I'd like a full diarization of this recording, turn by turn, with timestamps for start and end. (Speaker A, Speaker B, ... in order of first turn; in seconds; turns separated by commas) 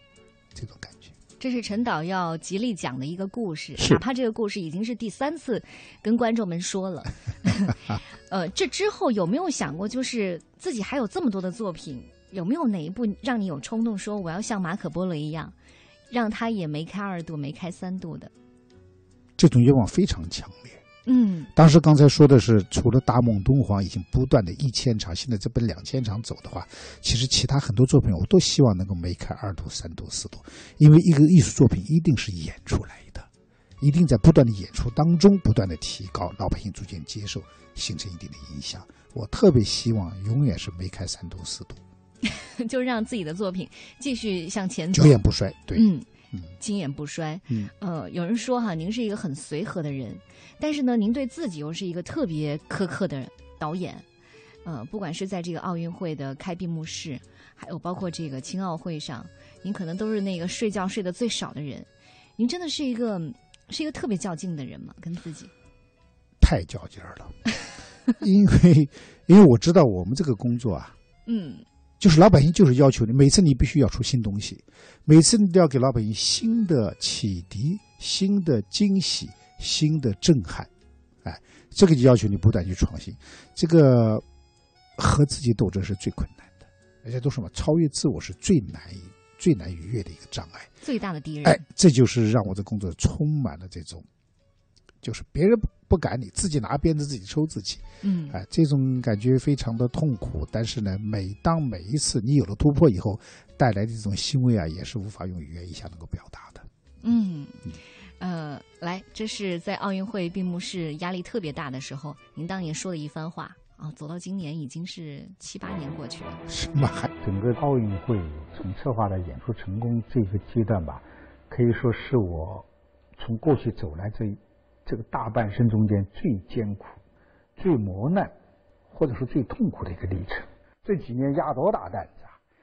Speaker A: 0.5-1.1, Speaker B: 1.4-15.5, Speaker B: 16.1-18.3, Speaker A: 19.4-20.8, Speaker B: 21.1-21.5, Speaker A: 21.5-33.3, Speaker A: 33.8-41.8, Speaker B: 42.2-46.1, Speaker A: 44.9-45.9, Speaker B: 46.6-54.0, Speaker B: 54.6-65.5, Speaker A: 66.4-67.3, Speaker A: 68.2-70.9, Speaker B: 71.2-71.6, Speaker A: 72.0-80.7, Speaker A: 81.2-84.2, Speaker A: 85.0-90.7, Speaker B: 90.8-91.6, Speaker A: 91.4-94.0, Speaker A: 95.0-106.7, Speaker B: 98.0-98.4, Speaker B: 107.0-107.6, Speaker B: 108.2-116.4, Speaker A: 116.5-117.1, Speaker C: 117.2-122.6, Speaker C: 123.2-127.0, Speaker C: 127.6-128.3, Speaker C: 128.9-132.3